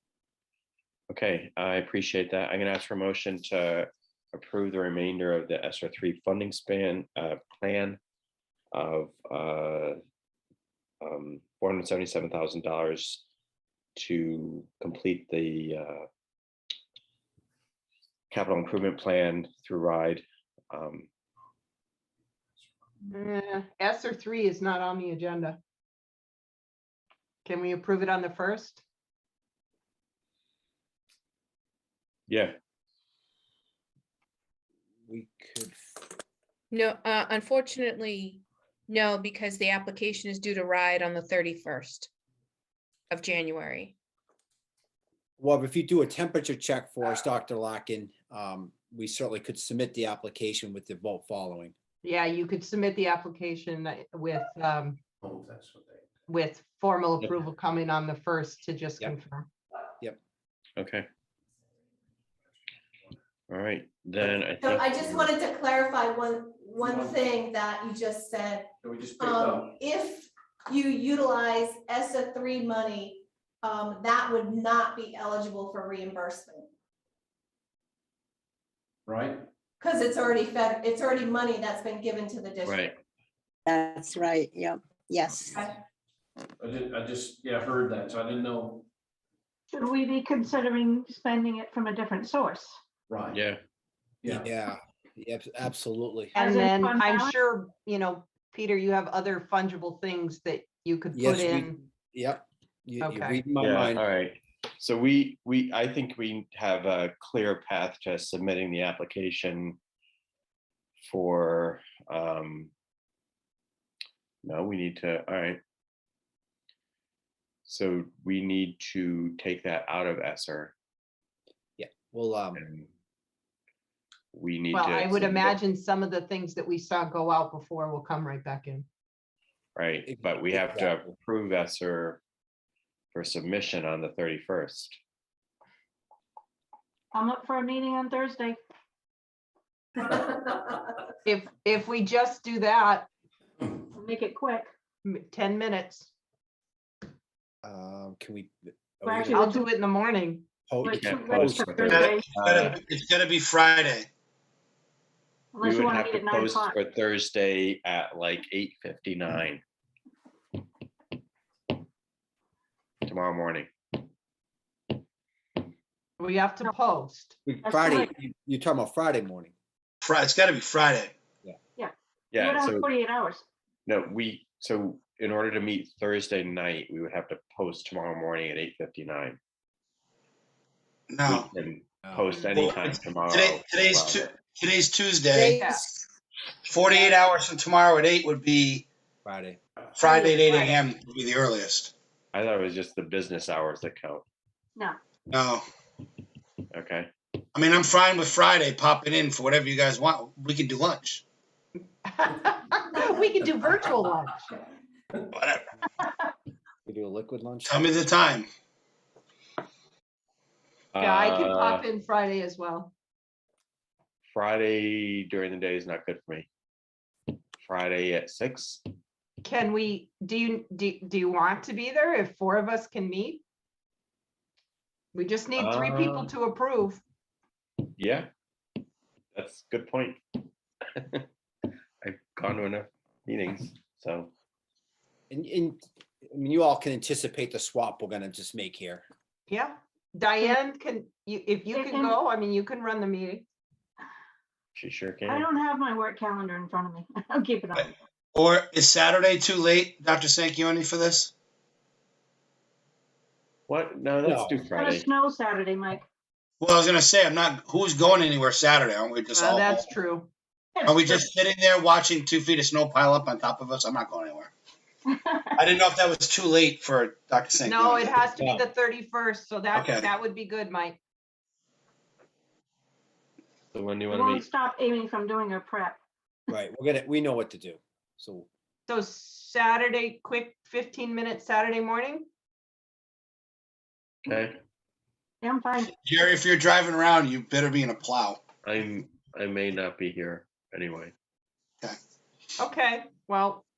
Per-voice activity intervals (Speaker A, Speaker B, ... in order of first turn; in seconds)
Speaker A: 1.1-8.0, 8.7-10.0, 11.0-13.2, 14.0-16.1, 18.3-21.1, 32.3-32.5, 60.8-61.1, 63.5-65.3, 82.7-83.0, 93.3-93.6, 103.6-109.8, 111.0-112.7, 114.4-115.6, 117.7-120.7, 122.5-122.9, 124.3-125.6, 129.8-132.2, 133.1-135.0, 150.9-152.8, 155.6-159.6, 163.1-163.7, 172.3-172.9, 173.9-179.4, 181.2-184.3, 192.3-194.2, 196.7-197.1, 210.9-211.8, 214.3-216.5, 217.6-218.8, 225.6-226.3, 228.0-228.3, 229.3-230.2, 231.0-231.3, 232.0-234.3, 244.8-245.5, 253.7-255.1, 273.7-274.4, 284.2-284.6, 288.6-291.1
Speaker B: 23.1-25.6, 27.4-28.8, 52.0-55.0, 56.3-59.5, 96.3-101.8, 103.0-103.4, 124.7-128.9, 141.2-143.1, 145.1-146.1, 149.3-150.5, 166.2-167.4, 190.1-190.8, 202.1-204.4, 211.0-212.9, 219.4-223.4, 225.1-227.0, 239.5-243.5, 259.3-260.3, 267.6-271.0, 278.9-282.3, 292.6-293.6
Speaker C: 35.1-35.8, 45.4-51.7, 94.2-96.3, 101.1-104.0, 121.8-122.6, 130.1-131.1, 147.6-149.4, 150.7-152.1, 167.5-169.5, 182.1-182.3, 189.2-189.6, 206.9-208.1, 235.3-239.1, 254.2-254.7, 276.5-278.5
Speaker D: 36.7-42.1, 43.1-43.9
Speaker E: 55.2-56.0, 66.8-67.3, 68.8-69.8, 79.1-79.5, 86.6-88.8, 93.1-93.4, 94.2-94.5
Speaker F: 64.6-76.7, 79.8-82.9
Speaker G: 83.7-85.7, 185.3-186.1
Speaker H: 89.7-92.8, 96.4-97.3, 137.1-138.6, 143.9-144.7, 149.1-149.7, 150.8-152.2, 155.5-156.8, 167.6-168.1, 171.8-173.4, 241.7-242.2, 245.3-247.9, 254.7-256.1, 260.8-261.2, 274.1-276.0, 285.4-285.9
Speaker I: 151.9-154.1, 170.0-171.1, 181.1-181.5, 182.5-185.6, 186.7-188.9, 190.0-191.9, 195.3-195.7, 197.5-201.2, 205.3-205.7, 207.7-208.5, 247.8-251.3, 256.6-259.9, 260.9-264.5, 265.6-268.3, 269.7-270.1, 286.0-288.4